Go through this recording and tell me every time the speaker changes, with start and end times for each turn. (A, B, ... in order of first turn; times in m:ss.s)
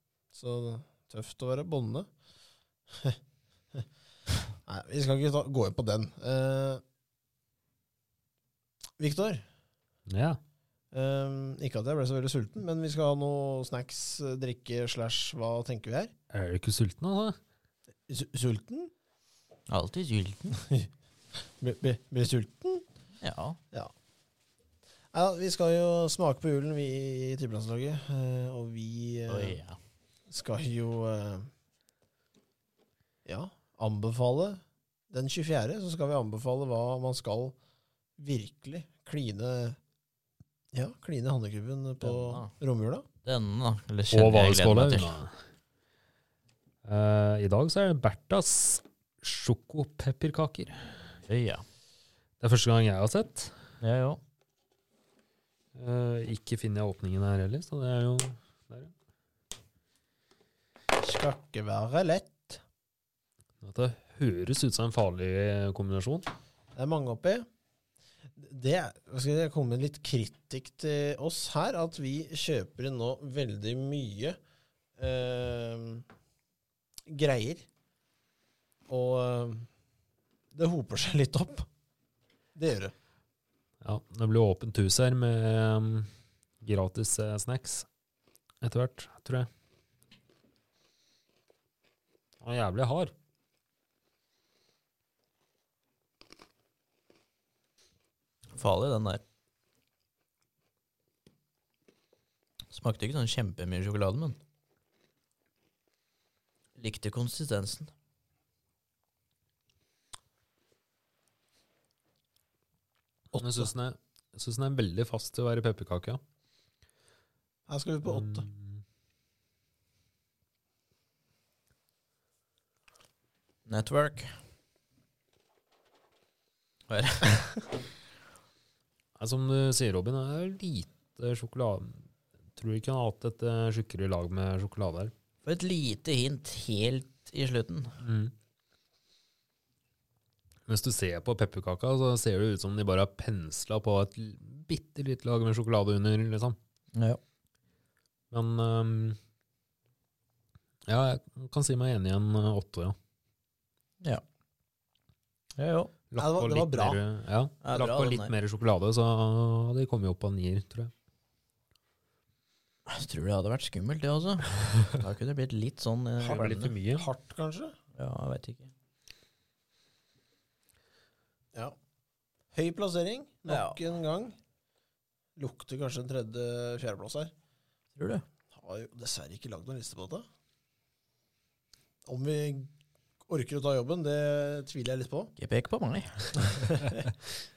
0:00.3-0:02.1 A
0:04.7-0:06.8 A
0:09.0-0:09.5 A
0:10.1-0:10.4 B
0:10.9-0:16.1 A
0:16.3-0:17.4 B
0:18.1-0:18.9 A
0:19.7-0:20.6 C
0:21.6-0:22.8 A
0:23.2-0:23.6 C
0:25.1-0:29.6 A
0:29.3-0:29.8 C
0:30.3-0:31.5 A
0:33.3-0:37.6 A
0:38.2-0:39.8 A
0:40.7-0:43.1 A
0:42.0-0:42.5 C
0:43.2-0:45.2 C
0:44.1-0:45.3 B
0:46.8-0:50.8 B
0:51.3-0:51.6 C
0:52.4-0:53.5 B
0:53.8-0:54.2 C
0:55.8-0:58.9 B
1:01.0-1:02.6 A
1:03.6-1:06.3 B
1:06.8-1:07.5 A
1:08.4-1:14.4 A
1:15.0-1:16.1 A
1:17.1-1:17.7 A
1:18.9-1:19.7 A
1:20.5-1:21.7 A
1:22.6-1:22.9 A
1:23.8-1:26.1 B
1:26.6-1:27.9 B
1:28.6-1:29.5 B
1:32.4-1:33.1 B
1:38.5-1:39.2 C
1:42.7-1:44.4 C
1:46.8-1:47.9 C
1:53.3-1:53.7 A
1:53.4-1:56.2 B
1:57.7-1:58.5 A
1:58.0-1:58.8 B
2:03.7-2:04.3 C
2:06.9-2:07.6 C
2:09.2-2:15.1 B
2:15.4-2:18.0 C
2:18.0-2:18.3 B
2:20.7-2:26.6 B
2:26.9-2:27.2 C
2:28.3-2:29.2 B
2:30.9-2:33.0 B
2:35.6-2:35.9 C
2:36.1-2:40.9 B
2:36.2-2:37.0 A
2:37.6-2:38.3 C
2:42.9-2:46.8 C
2:46.2-2:47.1 B
2:46.9-2:47.8 A
2:48.0-2:48.7 C
2:52.5-2:54.4 A
2:53.5-2:53.8 C
2:55.4-2:57.3 A
2:58.0-2:58.2 C
2:58.5-3:00.2 A
3:02.1-3:02.7 A
3:03.3-3:05.3 A
3:05.4-3:06.4 C
3:06.6-3:07.0 A